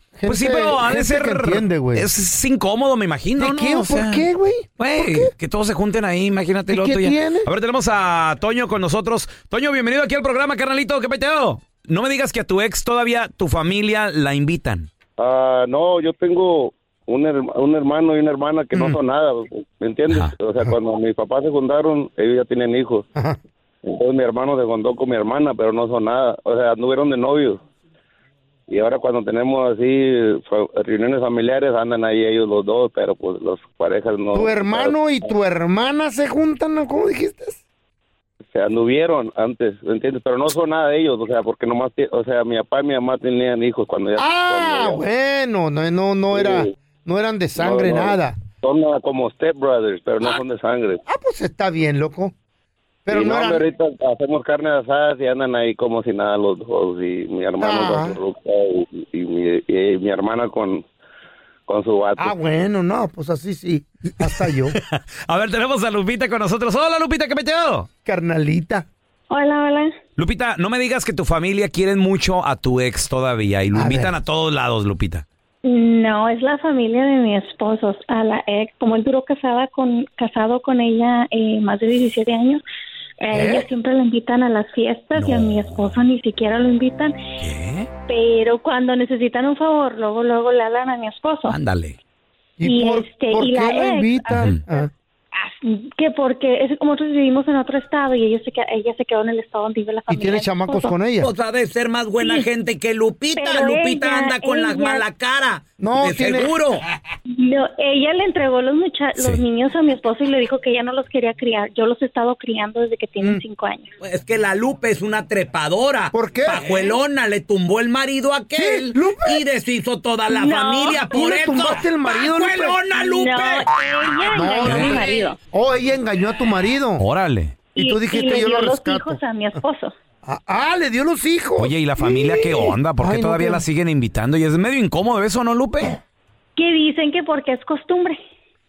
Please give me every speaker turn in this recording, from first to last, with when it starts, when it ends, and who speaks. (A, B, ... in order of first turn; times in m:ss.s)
0:00.2-0:02.1 A
0:00.3-0:04.3 B
0:03.4-0:05.3 A
0:04.8-0:14.9 B
0:06.7-0:07.5 A
0:15.2-0:23.1 C
0:18.7-0:19.0 A
0:20.1-0:20.3 B
0:23.8-0:27.6 C
0:28.7-0:34.9 C
0:34.3-0:37.6 A
0:38.5-0:45.0 C
0:44.2-0:48.4 A
0:46.3-0:46.7 C
0:47.6-0:51.0 C
0:51.0-0:52.3 A
0:53.0-0:53.6 A
0:53.1-1:00.8 C
0:57.6-0:58.2 A
1:01.7-1:02.4 C
1:02.2-1:04.8 A
1:04.8-1:07.9 B
1:08.0-1:08.9 A
1:09.3-1:09.9 D
1:10.2-1:15.2 B
1:13.7-1:14.1 A
1:15.6-1:22.6 D
1:23.2-1:27.2 D
1:23.3-1:23.7 A
1:25.1-1:26.0 B
1:27.4-1:27.9 B
1:28.1-1:31.6 D
1:31.5-1:32.0 B
1:32.6-1:34.9 A
1:32.6-1:40.9 D
1:34.3-1:34.6 B
1:40.1-1:41.3 A
1:41.2-1:46.8 E
1:42.2-1:42.5 D
1:43.4-1:45.0 D
1:45.8-1:46.5 A
1:47.3-1:53.9 D
1:49.2-1:49.4 B
1:54.0-2:03.7 E
1:56.1-1:56.7 A
1:58.6-1:59.4 A
2:00.3-2:01.1 D
2:01.1-2:02.8 A
2:02.9-2:05.4 D
2:04.3-2:07.0 A
2:04.6-2:05.0 B
2:07.0-2:07.6 B
2:07.7-2:09.9 D
2:07.8-2:09.2 A
2:10.2-2:13.6 A
2:11.6-2:16.0 B
2:16.6-2:18.2 D